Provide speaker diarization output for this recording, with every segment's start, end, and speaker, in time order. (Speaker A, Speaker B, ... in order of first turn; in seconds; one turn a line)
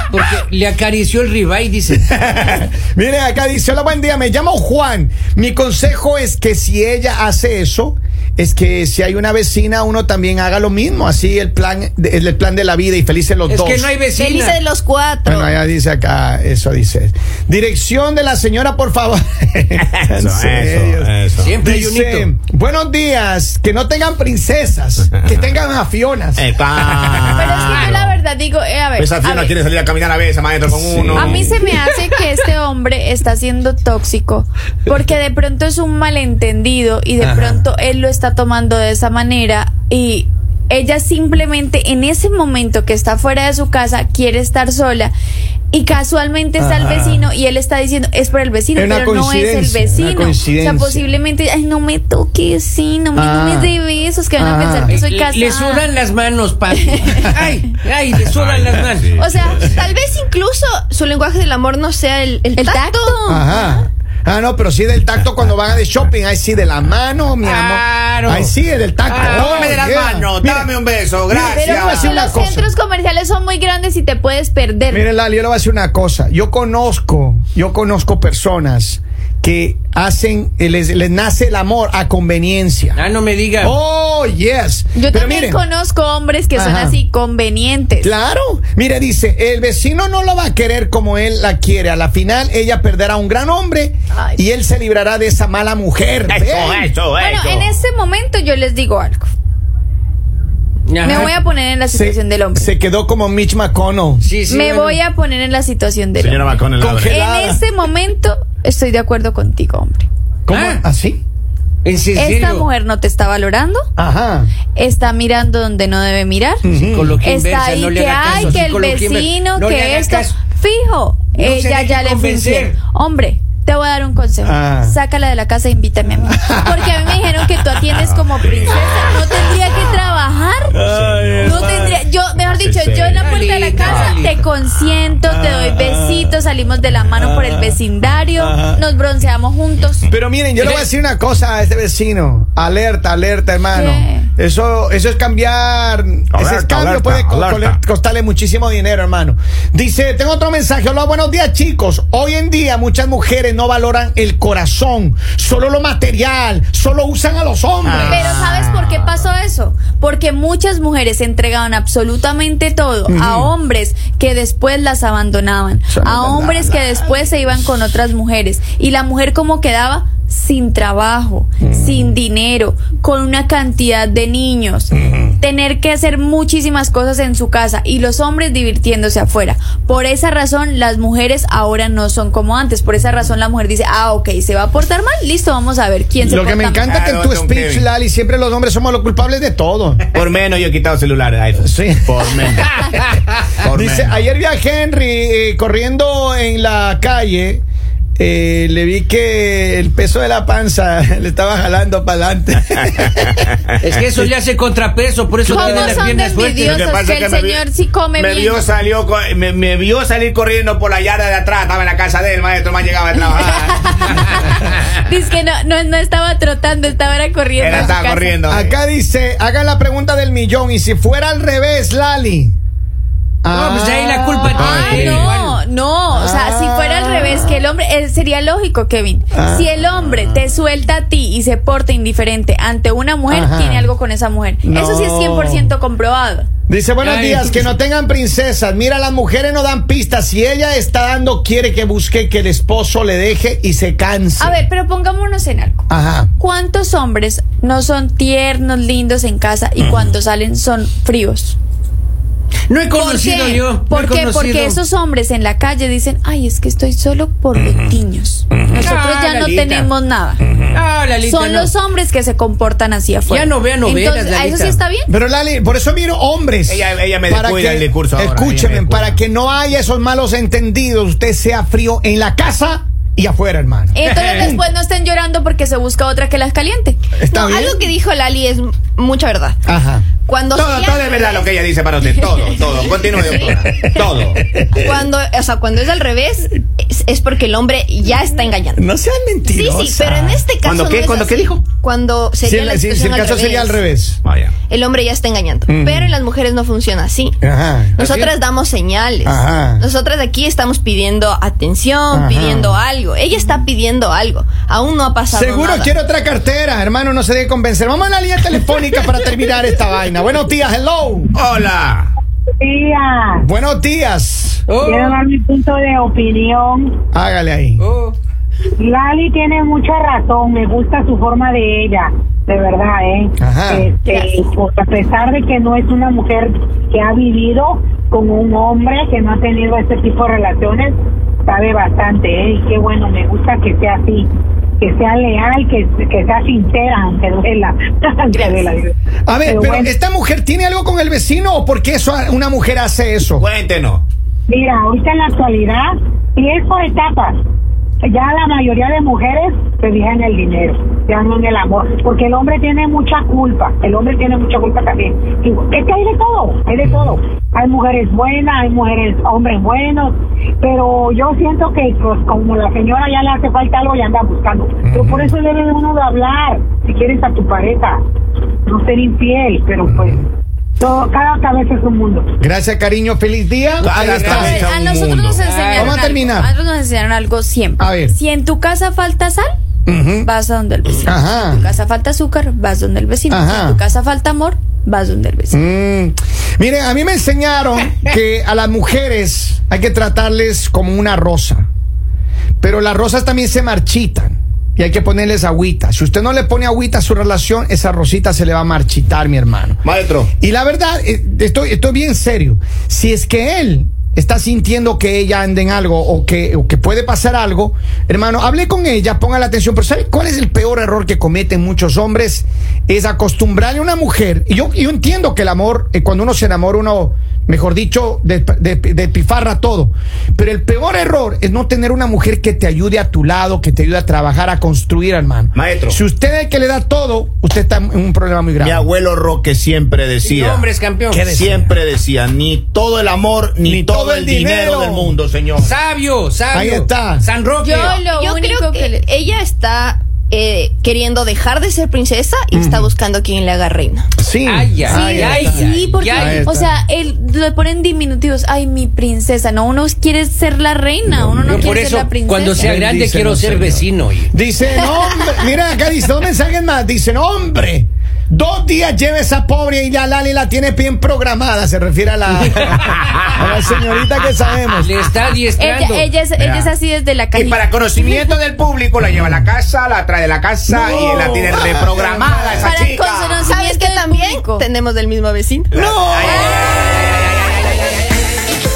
Speaker A: 0.1-2.1
Speaker B: 2.2-13.9
Speaker A: 13.5-14.6
Speaker C: 14.2-15.5
Speaker B: 15.2-26.5
Speaker D: 19.9-21.6
Speaker A: 21.4-22.3
Speaker D: 26.4-28.2
Speaker B: 27.2-27.6
Speaker E: 27.4-29.5
Speaker D: 29.0-31.6
Speaker B: 30.7-31.6
Speaker E: 31.1-45.1
Speaker B: 37.2-37.7
Speaker E: 45.7-55.9
Speaker B: 46.6-47.3
Speaker B: 48.8-51.0
Speaker B: 53.1-53.8
Speaker B: 54.4-55.0
Speaker A: 54.9-59.2
Speaker E: 56.9-57.3
Speaker D: 58.2-59.8
Speaker E: 59.2-59.6
Speaker C: 59.6-63.2
Speaker E: 62.5-63.8
Speaker B: 63.3-70.7
Speaker A: 67.4-68.5
Speaker A: 69.1-69.7
Speaker D: 69.1-72.1
Speaker B: 71.3-72.7
Speaker E: 71.5-75.1
Speaker B: 74.9-83.0
Speaker A: 82.9-83.7
Speaker B: 83.6-85.6
Speaker E: 84.9-88.1
Speaker B: 86.5-87.0
Speaker B: 88.0-96.9
Speaker E: 94.1-94.4
Speaker D: 96.3-97.7
Speaker E: 97.2-99.3
Speaker A: 100.9-101.4
Speaker E: 101.0-102.7
Speaker B: 101.9-104.2
Speaker A: 104.2-105.0
Speaker E: 104.5-110.1
Speaker D: 106.2-107.1
Speaker B: 106.8-107.6
Speaker B: 110.5-111.2
Speaker A: 110.5-110.8
Speaker A: 111.8-112.7
Speaker E: 112.1-113.9
Speaker B: 114.0-114.5
Speaker E: 114.7-116.6
Speaker B: 116.6-117.2
Speaker A: 116.7-120.3
Speaker E: 117.2-130.8
Speaker B: 118.2-118.6
Speaker A: 121.3-122.8
Speaker B: 124.4-125.0
Speaker B: 126.3-127.2
Speaker D: 128.0-134.1
Speaker B: 130.7-132.0
Speaker E: 131.4-140.1
Speaker A: 133.2-134.4
Speaker B: 135.2-136.4
Speaker B: 137.1-138.8
Speaker B: 140.1-158.4
Speaker A: 140.6-140.9
Speaker E: 143.7-144.3
Speaker D: 146.3-147.8
Speaker D: 157.8-159.3
Speaker E: 158.1-186.9
Speaker B: 163.1-163.5
Speaker B: 165.9-167.2
Speaker B: 171.6-172.2
Speaker B: 174.9-175.4
Speaker B: 186.2-190.0
Speaker D: 186.9-187.8
Speaker D: 190.1-192.8
Speaker B: 191.6-192.8
Speaker D: 193.6-194.2
Speaker B: 193.7-197.6
Speaker B: 198.2-203.5
Speaker A: 203.8-206.8
Speaker E: 205.4-208.7
Speaker B: 205.5-206.0
Speaker D: 206.6-214.4
Speaker E: 213.3-218.4
Speaker D: 217.6-218.7
Speaker B: 218.5-222.6
Speaker B: 223.4-225.0
Speaker A: 223.5-225.6
Speaker D: 224.4-225.3
Speaker E: 224.6-236.5
Speaker B: 226.1-227.6
Speaker B: 229.3-229.8
Speaker B: 233.3-233.9
Speaker B: 234.6-235.7
Speaker B: 236.7-244.6
Speaker A: 237.0-237.7
Speaker E: 244.4-245.8
Speaker B: 245.9-246.3
Speaker E: 246.4-251.6
Speaker B: 249.8-250.1
Speaker A: 252.7-254.8
Speaker E: 252.9-260.4
Speaker B: 257.5-257.9
Speaker B: 258.5-258.9
Speaker A: 258.8-259.9
Speaker B: 260.5-260.8
Speaker A: 260.7-261.7
Speaker E: 261.2-265.1
Speaker A: 263.3-264.8
Speaker B: 265.1-274.6
Speaker D: 266.7-269.2
Speaker E: 273.9-277.0
Speaker A: 274.1-274.5
Speaker B: 277.2-277.8
Speaker C: 277.3-279.6
Speaker B: 279.6-280.1
Speaker C: 280.2-281.5
Speaker D: 280.5-284.6
Speaker B: 283.2-285.0
Speaker C: 284.7-288.8
Speaker B: 288.7-290.4
Speaker C: 289.5-293.8
Speaker D: 290.6-291.6
Speaker B: 292.4-294.2
Speaker D: 294.2-294.6
Speaker C: 294.6-297.4
Speaker B: 295.7-296.2
Speaker B: 297.4-298.0
Speaker C: 298.0-305.9
Speaker A: 298.0-298.3
Speaker B: 299.2-299.8
Speaker B: 302.1-302.8
Speaker B: 305.3-311.3
Speaker D: 311.3-312.1
Speaker F: 312.6-313.4
Speaker B: 313.4-314.6
Speaker A: 314.7-315.2
Speaker F: 314.8-316.9
Speaker B: 317.1-317.8
Speaker A: 317.8-318.1
Speaker F: 318.8-330.9
Speaker B: 323.4-323.8
Speaker E: 324.0-324.3
Speaker F: 331.5-334.3
Speaker F: 334.8-338.9
Speaker E: 338.3-338.6
Speaker B: 339.3-343.4
Speaker F: 339.4-339.9
Speaker D: 343.4-344.0
Speaker F: 344.5-347.4
Speaker F: 348.0-368.0
Speaker B: 356.8-357.1
Speaker B: 364.8-365.3
Speaker F: 368.7-370.2
Speaker B: 369.8-370.1
Speaker F: 370.8-372.3
Speaker B: 372.4-374.7
Speaker D: 373.8-375.4
Speaker E: 374.1-379.5
Speaker A: 375.4-376.0
Speaker B: 375.7-376.5
Speaker B: 377.8-378.1
Speaker B: 379.9-380.3
Speaker E: 380.2-385.6
Speaker B: 381.0-381.6
Speaker B: 383.3-383.8
Speaker B: 385.5-391.7
Speaker B: 392.6-399.8
Speaker D: 399.8-400.3
Speaker B: 400.4-428.9
Speaker D: 425.5-426.0
Speaker D: 428.6-430.7
Speaker A: 430.2-431.4
Speaker B: 431.1-431.8
Speaker D: 431.2-435.8
Speaker B: 433.6-435.1
Speaker A: 435.6-438.0
Speaker B: 436.5-437.2
Speaker E: 437.6-439.1
Speaker C: 438.1-444.1
Speaker B: 442.5-442.9
Speaker B: 444.2-446.8
Speaker A: 444.4-446.5
Speaker E: 444.9-452.7
Speaker B: 451.1-451.7
Speaker A: 451.4-454.3
Speaker B: 452.6-464.9
Speaker A: 462.3-463.2
Speaker A: 464.8-466.1
Speaker E: 465.6-467.7
Speaker D: 466.4-466.7
Speaker D: 467.3-473.5
Speaker B: 470.7-472.7
Speaker E: 472.6-474.6
Speaker C: 473.4-475.7
Speaker D: 475.7-477.4
Speaker B: 475.7-476.6